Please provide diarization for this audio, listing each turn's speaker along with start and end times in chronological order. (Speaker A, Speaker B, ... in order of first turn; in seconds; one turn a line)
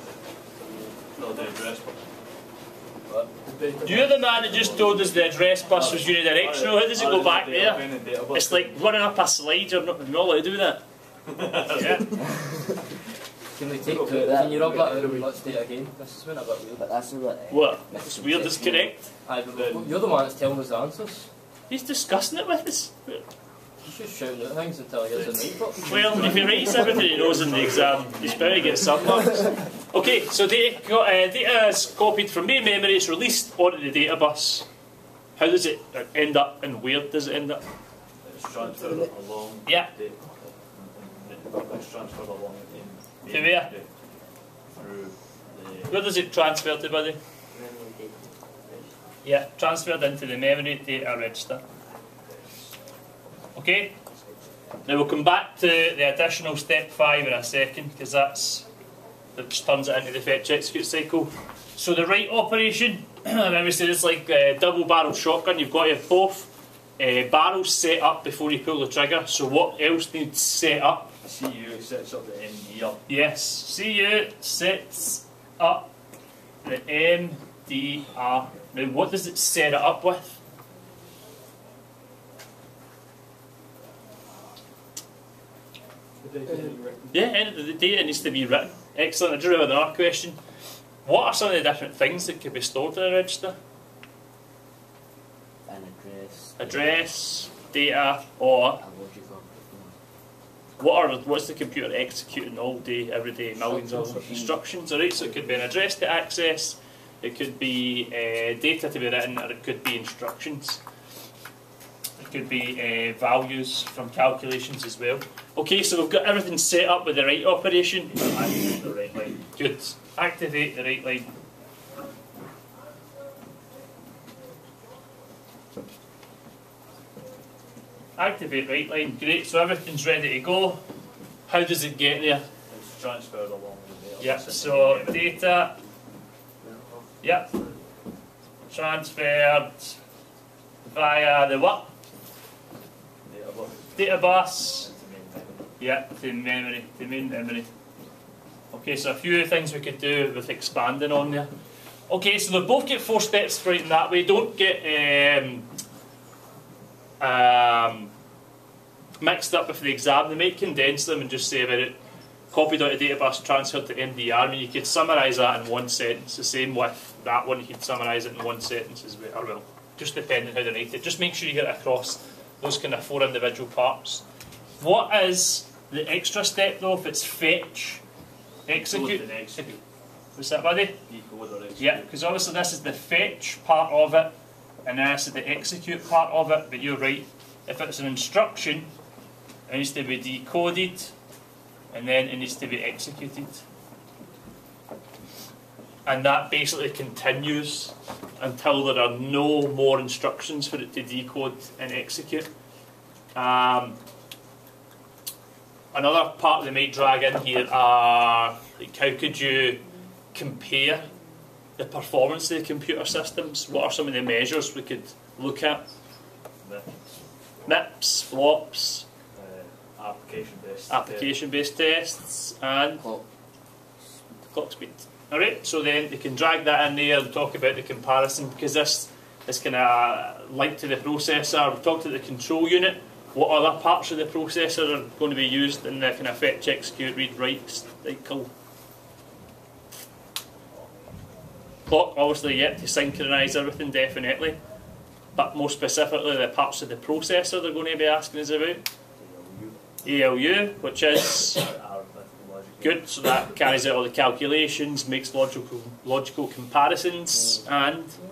Speaker A: 1.1-2.0
Speaker B: 3.1-4.7
Speaker C: 3.8-10.8
Speaker A: 4.2-5.2
Speaker A: 5.7-8.8
Speaker A: 11.3-12.1
Speaker C: 11.7-12.1
Speaker B: 13.5-16.8
Speaker A: 13.8-15.4
Speaker D: 14.1-15.1
Speaker D: 16.8-18.9
Speaker C: 17.5-19.1
Speaker B: 19.2-21.3
Speaker A: 19.5-20.1
Speaker C: 21.7-23.2
Speaker B: 23.8-26.5
Speaker A: 25.1-29.2
Speaker C: 25.8-34.6
Speaker C: 35.4-37.6
Speaker A: 38.2-43.9
Speaker C: 39.6-39.9
Speaker C: 43.3-43.7
Speaker A: 44.7-46.0
Speaker C: 45.9-47.2
Speaker D: 47.5-48.9
Speaker C: 49.2-51.6
Speaker C: 53.5-53.9
Speaker C: 54.8-58.7
Speaker C: 59.3-71.1
Speaker A: 71.2-73.0
Speaker C: 73.1-75.9
Speaker C: 76.6-80.4
Speaker A: 86.2-87.0
Speaker C: 87.1-90.4
Speaker C: 91.0-93.5
Speaker D: 95.7-96.9
Speaker C: 96.6-98.8
Speaker D: 98.8-99.9
Speaker C: 100.8-110.8
Speaker D: 103.6-104.5
Speaker C: 112.2-118.5
Speaker A: 118.1-119.4
Speaker C: 119.3-121.3
Speaker C: 128.2-130.8
Speaker C: 131.5-132.4
Speaker A: 132.7-135.4
Speaker C: 134.2-135.8
Speaker D: 136.6-137.0
Speaker C: 137.2-137.5
Speaker C: 138.7-140.0
Speaker C: 140.8-141.9
Speaker A: 143.3-145.7
Speaker C: 143.9-144.9
Speaker C: 145.8-147.7
Speaker C: 148.7-151.5
Speaker C: 152.1-155.7
Speaker C: 157.2-158.1
Speaker C: 159.2-162.0
Speaker C: 162.5-174.2
Speaker C: 174.8-178.0
Speaker C: 178.7-179.8
Speaker A: 178.8-179.8
Speaker C: 180.3-181.0
Speaker A: 181.1-182.1
Speaker C: 181.8-184.3
Speaker C: 184.8-188.9
Speaker C: 189.7-191.1
Speaker C: 191.9-193.6
Speaker C: 196.1-202.5
Speaker C: 203.3-204.0
Speaker C: 205.9-211.1
Speaker C: 211.8-215.8
Speaker A: 216.6-217.8
Speaker C: 217.7-219.0
Speaker A: 219.3-221.3
Speaker C: 220.9-223.1
Speaker C: 224.5-238.5
Speaker C: 241.9-244.6
Speaker C: 245.3-248.8
Speaker A: 249.2-249.8
Speaker C: 250.0-251.6
Speaker A: 251.5-253.1
Speaker C: 252.8-258.2